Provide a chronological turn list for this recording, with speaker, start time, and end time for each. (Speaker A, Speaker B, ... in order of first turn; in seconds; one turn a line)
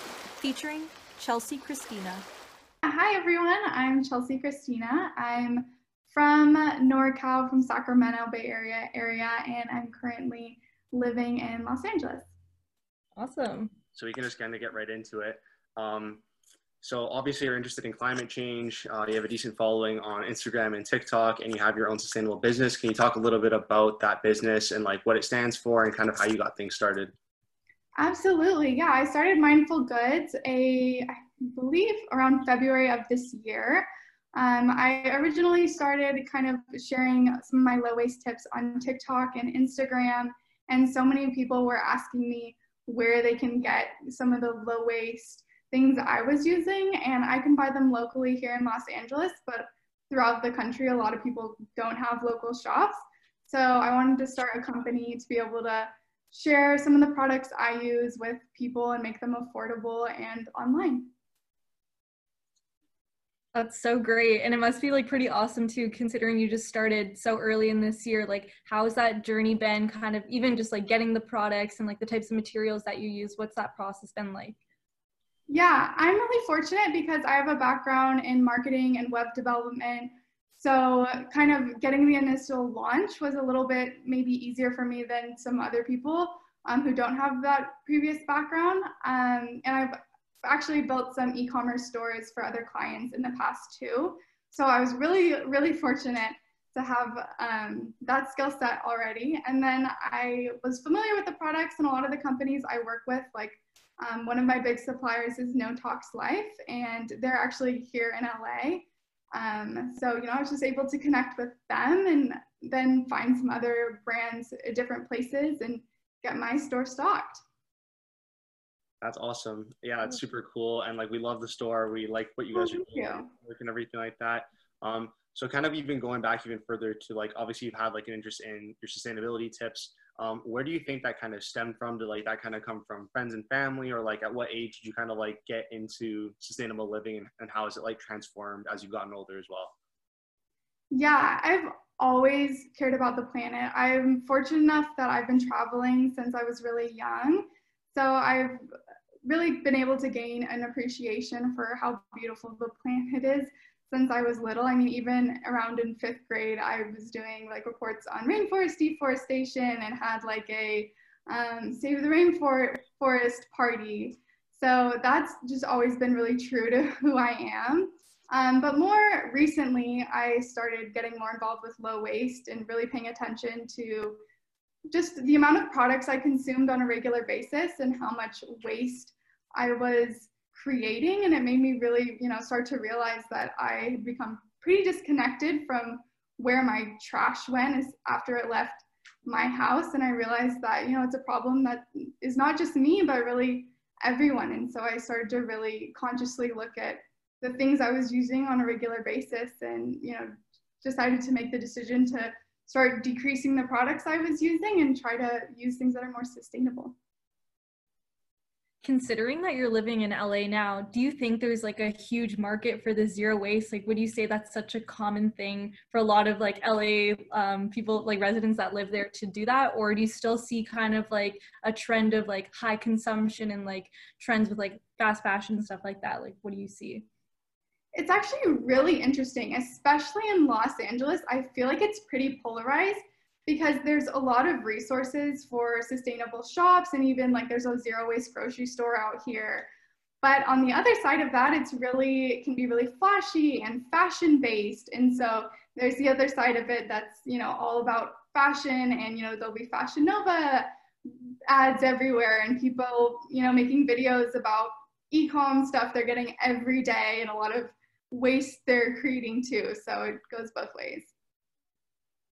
Speaker A: 0.4-2.3
Speaker B: 2.8-12.3
Speaker A: 13.2-13.7
Speaker C: 13.9-16.2
Speaker C: 16.8-27.1
Speaker B: 27.9-61.1
Speaker A: 63.5-74.6
Speaker B: 75.5-117.4
Speaker C: 119.0-139.7
Speaker B: 122.5-123.3
Speaker B: 140.9-148.6
Speaker B: 149.2-174.2
Speaker B: 174.9-206.9
Speaker A: 208.8-227.0
Speaker B: 227.9-239.7
Speaker B: 240.2-261.1